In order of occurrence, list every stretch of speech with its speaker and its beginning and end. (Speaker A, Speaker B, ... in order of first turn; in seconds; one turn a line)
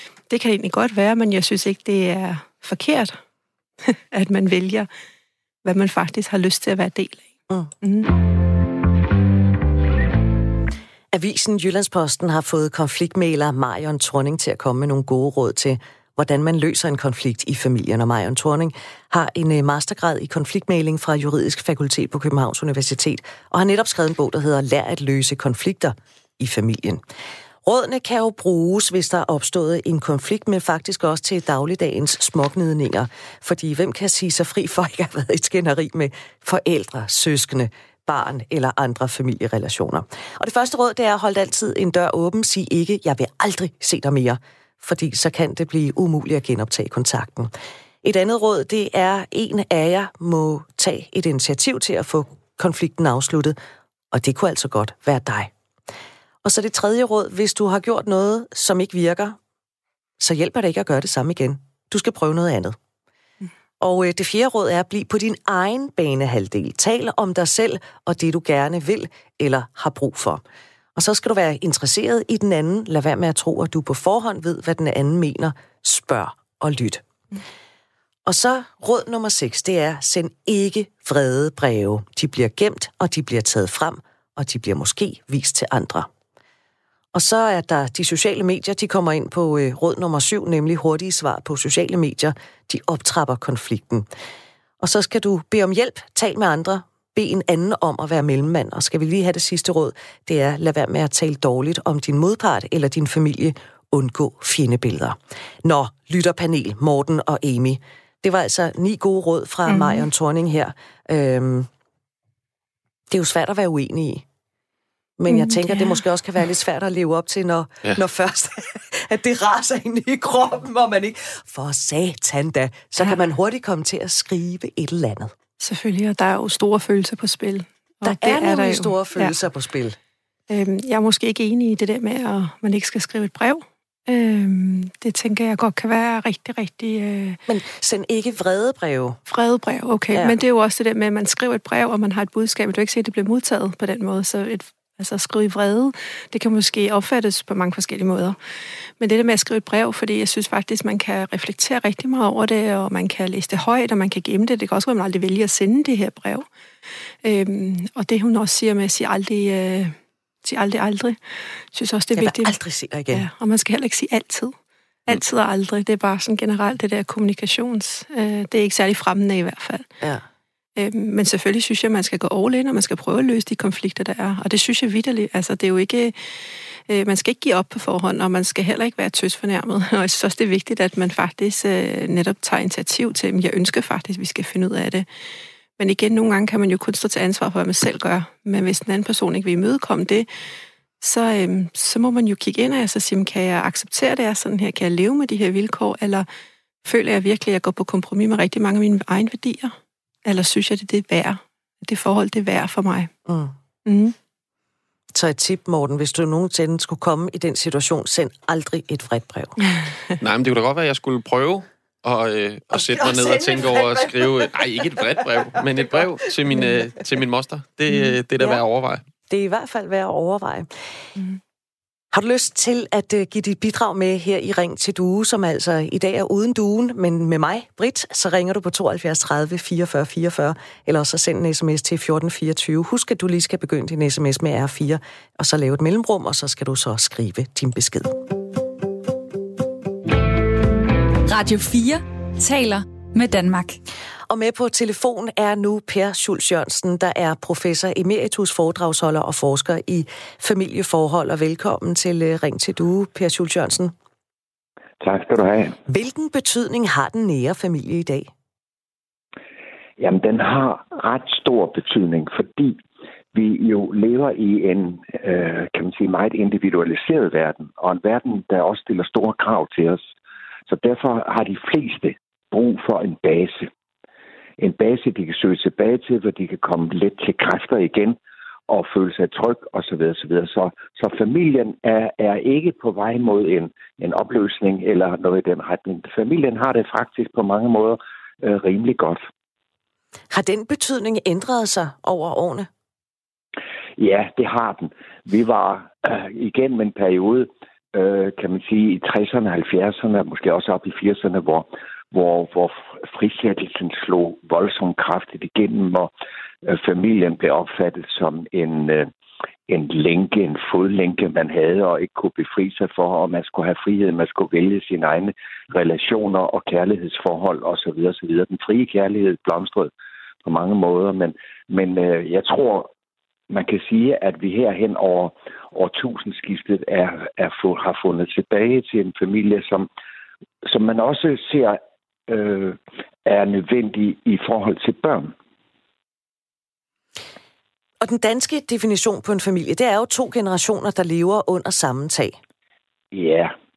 Speaker A: 0.3-3.1
Speaker A: 3.8-4.9
Speaker A: 5.6-7.3
Speaker A: 7.8-8.1
Speaker B: 11.1-27.0
Speaker B: 27.6-47.5
Speaker B: 48.0-53.5
Speaker B: 54.1-55.5
Speaker B: 56.4-59.4
Speaker B: 60.2-62.8
Speaker B: 63.8-70.4
Speaker B: 71.0-77.0
Speaker B: 78.2-86.1
Speaker B: 87.1-94.1
Speaker B: 94.8-111.7
Speaker A: 109.7-110.1
Speaker B: 113.1-114.2
Speaker B: 115.2-125.3
Speaker A: 115.3-116.0
Speaker A: 125.6-129.3
Speaker B: 128.0-130.0
Speaker A: 130.5-137.4
Speaker B: 137.5-139.2
Speaker A: 139.3-148.4
Speaker A: 149.0-156.5
Speaker A: 157.2-161.2
Speaker A: 161.7-162.5
Speaker B: 162.2-163.2
Speaker A: 163.1-164.5
Speaker A: 165.1-169.8
Speaker A: 170.8-185.1
Speaker A: 185.8-190.3
Speaker A: 191.0-196.3
Speaker A: 196.8-199.7
Speaker A: 200.2-203.1
Speaker B: 203.3-203.5
Speaker A: 203.8-204.1
Speaker B: 205.1-209.5
Speaker A: 209.6-210.1
Speaker C: 210.2-219.0
Speaker B: 212.7-214.7
Speaker B: 219.3-220.7
Speaker B: 222.1-238.2
Speaker D: 241.3-243.8
Speaker B: 244.3-253.9
Speaker E: 255.0-255.8
Speaker B: 255.8-258.3
Speaker E: 260.0-262.8
Speaker E: 263.3-270.0
Speaker E: 270.7-273.7
Speaker E: 274.6-289.2
Speaker B: 290.3-292.7
Speaker E: 294.0-306.1
Speaker E: 306.6-309.1
Speaker E: 309.7-319.9
Speaker E: 320.4-322.9
Speaker E: 323.5-329.9
Speaker E: 330.6-335.3
Speaker B: 338.0-342.4
Speaker E: 343.1-343.5